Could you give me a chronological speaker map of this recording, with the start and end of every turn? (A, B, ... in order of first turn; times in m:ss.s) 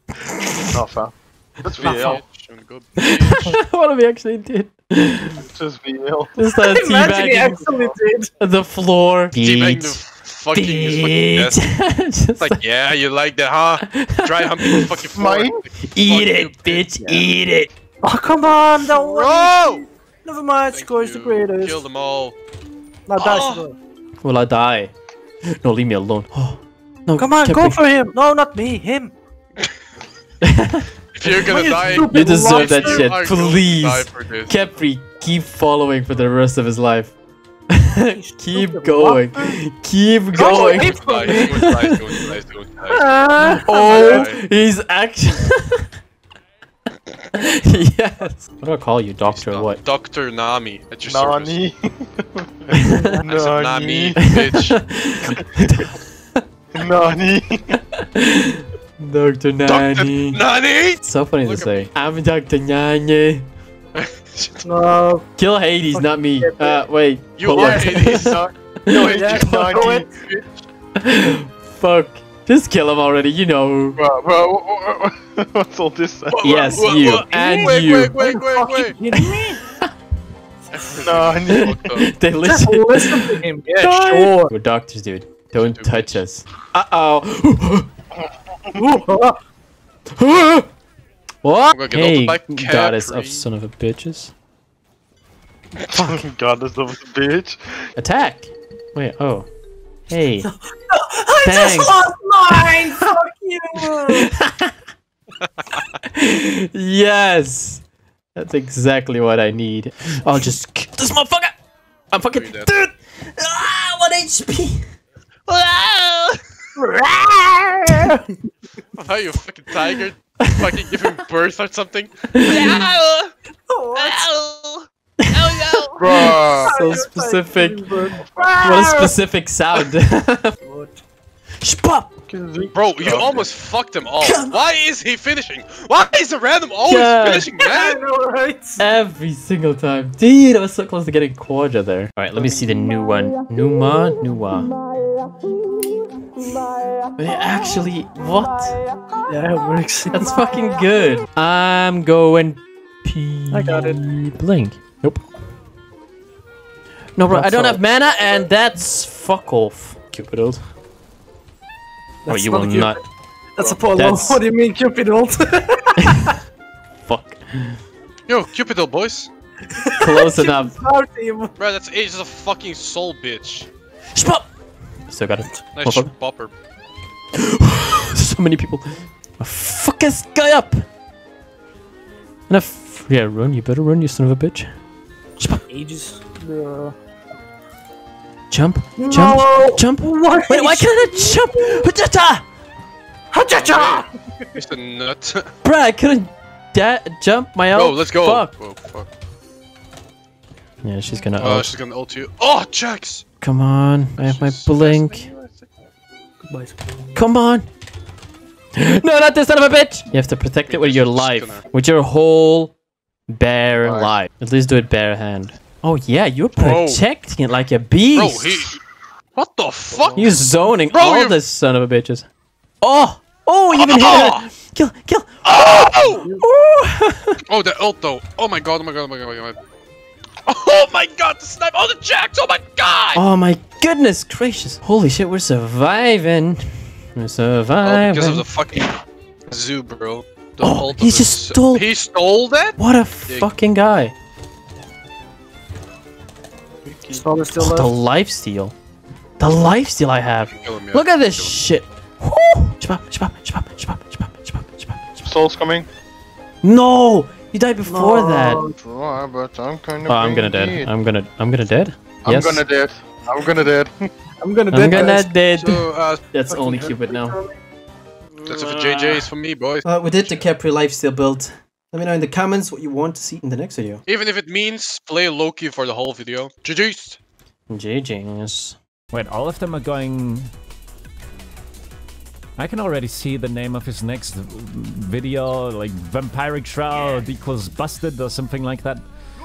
0:00.3-0:00.6 A
0:00.7-0:02.2 B
0:01.8-0:03.6 C
0:01.8-0:02.2 A
0:03.0-0:05.4 A
0:05.4-0:06.4 B
0:06.4-0:07.7 A
0:06.5-0:08.3 D
0:08.4-0:10.0 A
0:09.4-0:11.6 C
0:10.5-0:12.6 A
0:12.4-0:16.9 C
0:13.9-0:15.0 A
0:15.2-0:15.6 B
0:15.8-0:17.7 A
0:18.0-0:21.8 D
0:18.8-0:19.9 C
0:20.7-0:22.4 C
0:23.1-0:23.8 D
0:23.2-0:23.6 C
0:24.2-0:24.9 A
0:25.5-0:27.8 A
0:27.2-0:29.1 D
0:30.4-0:31.3 A
0:31.1-0:34.6 C
0:31.3-0:33.1 D
0:32.1-0:37.2 A
0:37.7-0:42.2 A
0:38.1-0:39.6 D
0:40.4-0:41.8 D
0:40.4-0:44.4 C
0:42.9-0:44.3 D
0:43.5-0:45.9 A
0:47.3-0:49.8 A
0:49.3-0:51.6 C
0:51.1-0:54.2 B
0:52.9-0:53.2 D
0:53.3-0:54.8 C
0:54.2-0:56.4 A
0:56.7-0:57.8 B
0:58.0-1:00.4 A
0:59.7-1:01.9 C
1:01.0-1:03.4 A
1:04.0-1:04.7 C
1:04.6-1:05.3 D
1:05.4-1:09.9 A
1:05.9-1:06.9 D
1:07.4-1:08.4 C
1:07.5-1:10.1 B
1:09.0-1:10.1 D
1:10.1-1:10.5 C
1:11.0-1:14.0 A
1:14.0-1:16.9 B
1:16.3-1:19.0 C
1:16.4-1:18.3 A
1:17.3-1:19.6 D
1:19.1-1:19.9 A
1:20.7-1:22.1 C
1:21.0-1:21.9 B
1:21.5-1:27.9 A
1:22.4-1:24.5 D
1:25.6-1:26.2 C
1:28.8-1:29.4 D
1:30.2-1:30.7 A
1:31.4-1:34.3 A
1:31.7-1:33.5 C
1:35.9-1:37.9 B
1:38.0-1:39.5 A
1:40.1-1:40.5 A
1:40.9-1:44.3 D
1:41.4-1:43.1 A
1:43.8-1:44.7 A
1:46.0-1:47.8 A
1:48.4-1:51.6 A
1:52.1-1:54.9 A
1:52.3-1:52.8 C
1:55.5-1:56.4 A
1:56.8-1:58.3 D
1:57.8-1:58.1 A
1:59.0-2:03.3 C
2:00.4-2:01.0 A
2:02.3-2:02.9 A
2:03.7-2:04.3 D
2:04.0-2:06.0 C
2:05.2-2:08.0 A
2:06.0-2:06.7 B
2:06.1-2:09.1 D
2:08.2-2:08.6 B
2:08.6-2:10.6 A
2:10.6-2:11.0 D
2:11.6-2:12.1 A
2:12.3-2:13.5 B
2:12.7-2:18.0 C
2:14.2-2:14.6 A
2:16.8-2:17.5 A
2:17.6-2:18.9 D
2:18.8-2:24.7 A
2:27.2-2:28.8 A
2:29.3-2:30.3 D
2:30.1-2:35.2 A
2:33.5-2:34.1 D
2:37.2-2:40.6 A
2:37.3-2:37.8 D
2:42.2-2:43.0 D
2:42.3-2:43.0 A
2:43.6-2:46.3 D
2:43.9-2:44.4 A
2:46.0-2:46.3 A
2:47.0-2:47.8 A
2:48.3-2:49.3 C
2:49.7-2:51.5 D
2:50.0-2:50.8 A
2:51.6-2:53.7 C
2:54.1-2:54.5 A
2:55.1-2:56.1 A
2:55.7-2:56.5 C
2:57.4-3:00.8 A
3:02.5-3:04.8 A
3:05.7-3:07.0 D
3:08.5-3:12.4 A
3:09.0-3:11.8 D
3:13.3-3:14.4 D
3:13.5-3:15.5 C
3:15.6-3:18.5 A
3:17.7-3:19.1 C
3:20.8-3:21.7 A
3:21.4-3:23.2 C
3:23.4-3:25.3 A
3:24.2-3:25.7 C
3:26.4-3:27.0 D
3:27.2-3:27.7 A
3:28.8-3:32.8 A
3:30.6-3:31.7 C
3:33.3-3:38.8 A
3:33.8-3:34.2 B
3:36.6-3:37.0 C
3:38.1-3:38.8 C
3:39.4-3:40.4 C
3:39.9-3:40.4 B
3:40.2-3:42.3 A
3:40.9-3:41.4 C
3:42.8-3:47.4 A
3:43.7-3:44.5 C
3:45.4-3:46.3 C
3:47.5-3:49.6 C
3:50.5-3:53.2 C
3:53.2-3:58.4 A
3:57.8-4:03.5 C
4:00.6-4:01.9 A
4:02.8-4:04.1 A
4:06.9-4:07.2 B
4:07.1-4:07.9 D
4:07.6-4:08.8 A
4:09.4-4:15.3 A
4:10.5-4:11.6 C
4:15.2-4:15.9 B
4:16.6-4:18.6 A
4:17.9-4:18.8 D
4:18.7-4:20.9 B
4:20.1-4:22.6 A
4:22.2-4:24.1 B
4:24.4-4:25.3 D
4:24.7-4:27.4 A
4:24.9-4:26.2 C
4:26.5-4:27.6 D
4:28.5-4:30.4 C
4:29.8-4:34.0 A
4:34.1-4:37.2 C
4:37.7-4:38.8 A
4:39.1-4:40.5 E
4:42.6-4:49.0 E